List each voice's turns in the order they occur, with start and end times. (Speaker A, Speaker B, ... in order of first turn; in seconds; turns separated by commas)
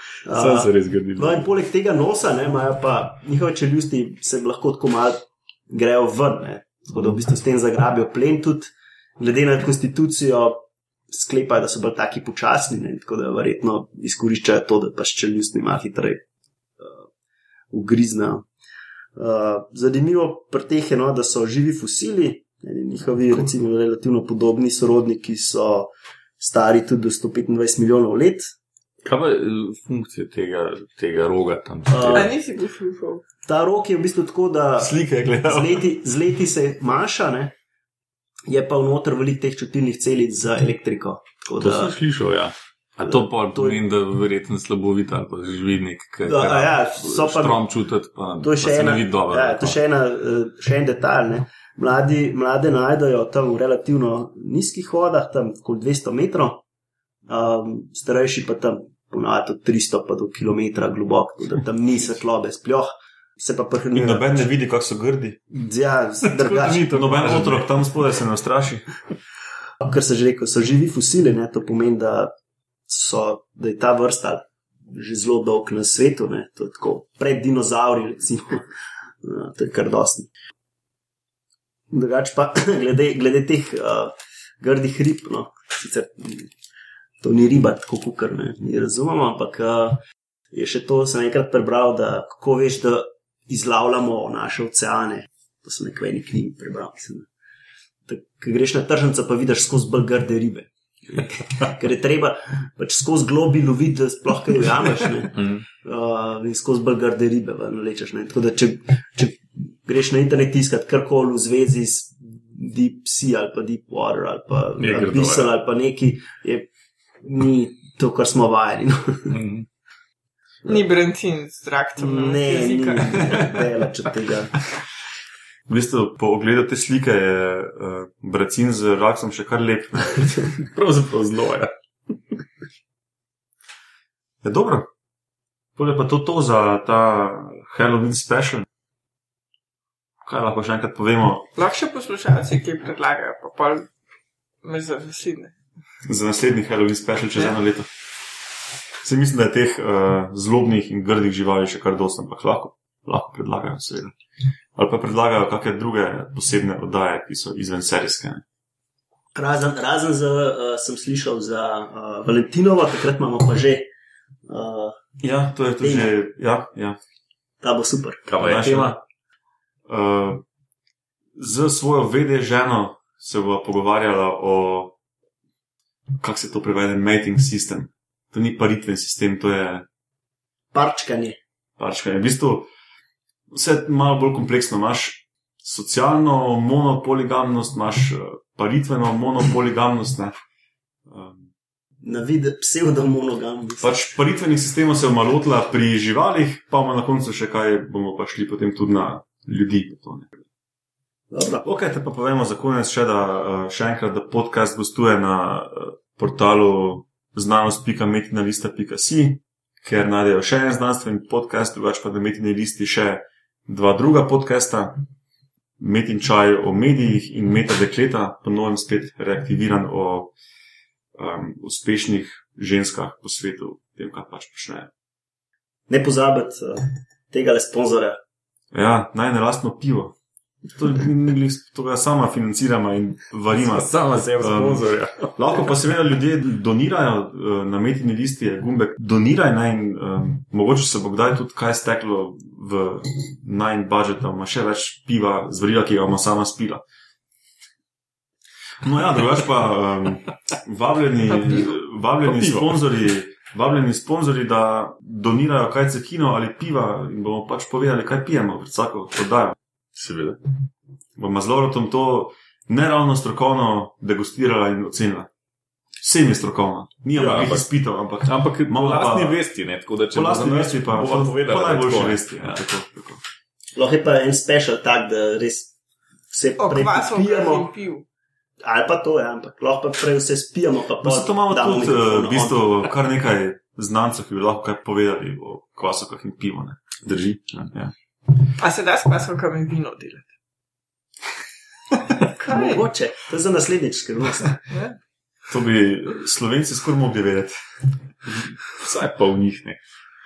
Speaker A: 0.3-5.2, Speaker B: 0.3-1.5, Speaker A: 5.7-16.2, Speaker A: 16.8-17.1, Speaker A: 17.7-18.5, Speaker A: 19.2-28.5, Speaker B: 29.0-32.3, Speaker A: 31.9-32.3, Speaker C: 32.1-33.2, Speaker A: 33.5-37.5, Speaker D: 34.8-35.8, Speaker A: 38.5-42.0, Speaker B: 41.6-49.8, Speaker A: 43.0-43.8, Speaker A: 46.2-47.6, Speaker A: 48.4-56.6, Speaker A: 57.3-64.3, Speaker D: 63.9-65.4, Speaker A: 65.5-67.0, Speaker B: 66.2-67.7, Speaker D: 66.9-68.9, Speaker A: 69.8-72.3, Speaker A: 72.9-78.7, Speaker A: 79.2-80.3, Speaker A: 81.9-86.5, Speaker A: 87.2-90.0, Speaker A: 90.5-97.3, Speaker A: 98.1-116.7, Speaker B: 105.3-105.6, Speaker B: 114.8-115.5, Speaker A: 117.2-119.4, Speaker B: 119.3-119.7, Speaker C: 120.7-123.5, Speaker A: 122.0-124.5, Speaker D: 125.7-130.5, Speaker B: 130.6-131.7, Speaker D: 134.4-134.9, Speaker D: 135.8-138.7, Speaker D: 140.2-141.5, Speaker C: 141.6-143.9, Speaker C: 144.6-145.6, Speaker D: 146.1-147.9, Speaker D: 149.0-154.1, Speaker D: 154.8-158.4, Speaker A: 159.3-163.9, Speaker A: 164.5-165.0, Speaker D: 165.2-167.0, Speaker A: 165.8-166.1, Speaker A: 167.6-168.3, Speaker B: 168.3-169.0, Speaker D: 168.4-169.0, Speaker D: 169.9-170.4, Speaker D: 171.4-174.9, Speaker D: 176.2-179.9, Speaker A: 180.7-181.4, Speaker D: 181.8-182.7, Speaker D: 183.5-190.3, Speaker D: 191.1-191.5, Speaker A: 192.0-193.9, Speaker D: 193.8-200.3, Speaker A: 201.3-201.7, Speaker D: 201.6-215.0, Speaker D: 215.8-220.3, Speaker D: 221.2-224.9, Speaker A: 225.9-228.2, Speaker D: 228.7-230.2, Speaker D: 230.7-246.8, Speaker B: 233.5-235.7, Speaker D: 248.8-259.6, Speaker B: 252.2-252.8, Speaker B: 260.0-260.4, Speaker D: 261.2-265.3, Speaker D: 266.0-269.4, Speaker B: 267.1-267.7, Speaker B: 268.2-272.6, Speaker D: 270.1-273.2, Speaker A: 273.8-275.7, Speaker A: 276.3-277.7, Speaker C: 276.6-278.1, Speaker A: 278.6-282.9, Speaker D: 281.0-287.9, Speaker B: 287.1-287.4, Speaker C: 288.6-290.3, Speaker C: 292.1-292.8, Speaker A: 292.4-294.6, Speaker C: 294.7-295.0, Speaker D: 295.5-297.6, Speaker B: 298.6-299.8